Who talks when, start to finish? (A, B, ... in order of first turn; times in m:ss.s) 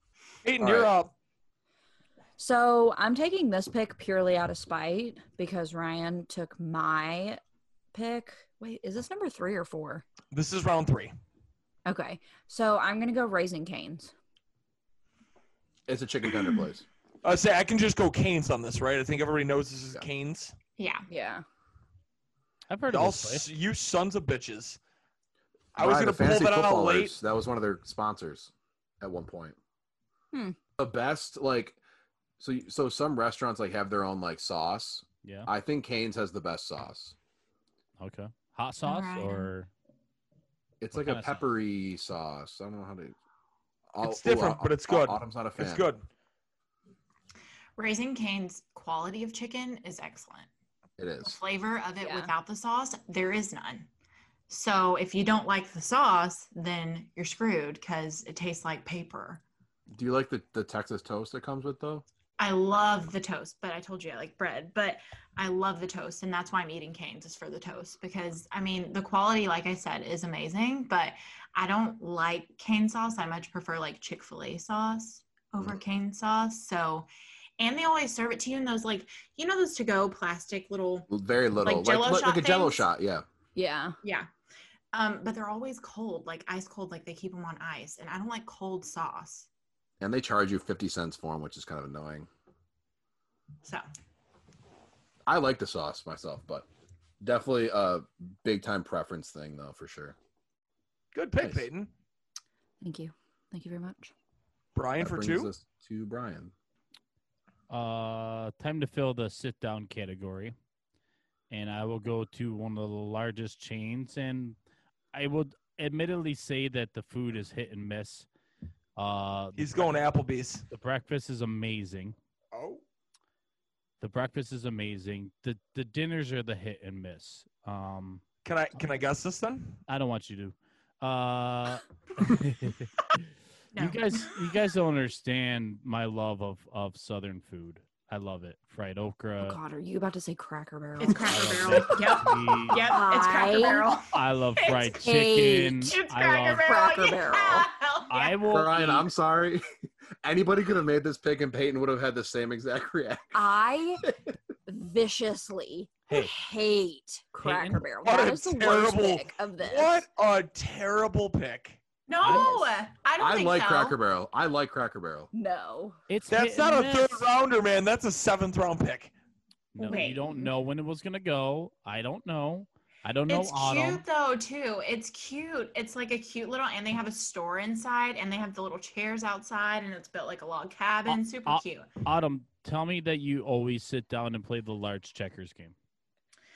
0:00.4-0:01.1 A
0:00.6-0:00.9 B
0:02.4-0:07.4 C
0:07.9-0:10.0 C
0:10.3-0:11.1 A
0:11.9-0:14.1 C
0:15.9-0:16.8 B
0:17.2-0:20.6 A
0:20.8-0:21.1 D
0:21.1-0:21.4 C
0:22.7-0:23.5 E
0:22.9-0:24.8 A
0:25.8-0:29.6 B
0:25.8-0:27.1 A
0:30.3-0:30.6 C
0:30.8-0:31.8 B
0:32.4-0:37.2 B
0:35.2-0:35.5 E
0:38.0-0:39.7 E
0:38.8-0:39.5 D
0:40.8-0:43.2 B
0:40.9-0:41.5 E
0:43.9-0:45.9 B
0:44.0-0:46.1 A
0:47.8-0:50.5 D
0:51.0-0:51.4 B
0:51.2-0:53.9 D
0:52.0-0:52.3 C
0:54.5-0:59.4 D
0:59.9-1:02.0 B
1:02.4-1:21.1 D
1:21.1-1:23.2 B
1:21.6-1:22.9 D
1:23.6-1:24.0 C
1:24.0-1:24.3 D
1:24.9-1:29.5 D
1:30.0-1:32.3 B
1:35.3-1:36.7 B
1:37.2-1:40.2 B
1:41.1-1:41.9 A
1:41.4-1:41.7 B
1:42.8-1:44.1 C
1:44.8-1:45.5 A
1:45.0-1:46.5 B
1:47.7-1:50.6 E
1:51.5-1:54.6 E
1:55.1-1:58.3 E
1:59.0-2:00.0 E
1:59.6-2:00.7 A
2:00.7-2:02.2 E
2:02.5-2:02.8 A
2:04.0-2:08.2 E
2:08.4-2:09.8 A
2:09.9-2:13.2 E
2:13.7-2:14.4 D
2:13.8-2:19.6 E
2:19.4-2:22.1 C
2:21.0-2:25.0 D
2:21.2-2:23.0 E
2:22.8-2:23.9 C
2:24.1-2:26.7 E
2:25.0-2:25.8 C
2:25.7-2:28.4 D
2:26.6-2:27.7 C
2:28.1-2:29.1 E
2:28.5-2:29.6 B
2:30.2-2:33.4 B
2:33.3-2:34.1 C
2:34.0-2:34.3 B
2:34.7-2:40.0 C
2:36.1-2:36.3 E
2:37.4-2:37.9 E
2:38.0-2:41.8 A
2:42.1-2:44.0 D
2:42.2-2:42.6 E
2:43.2-2:45.3 B
2:45.3-2:46.0 C
2:46.1-2:47.2 E
2:46.3-2:49.1 A
2:49.7-2:54.0 E
2:49.8-2:50.5 C
2:49.9-2:50.4 D
2:53.3-3:01.9 D
3:01.1-3:05.8 E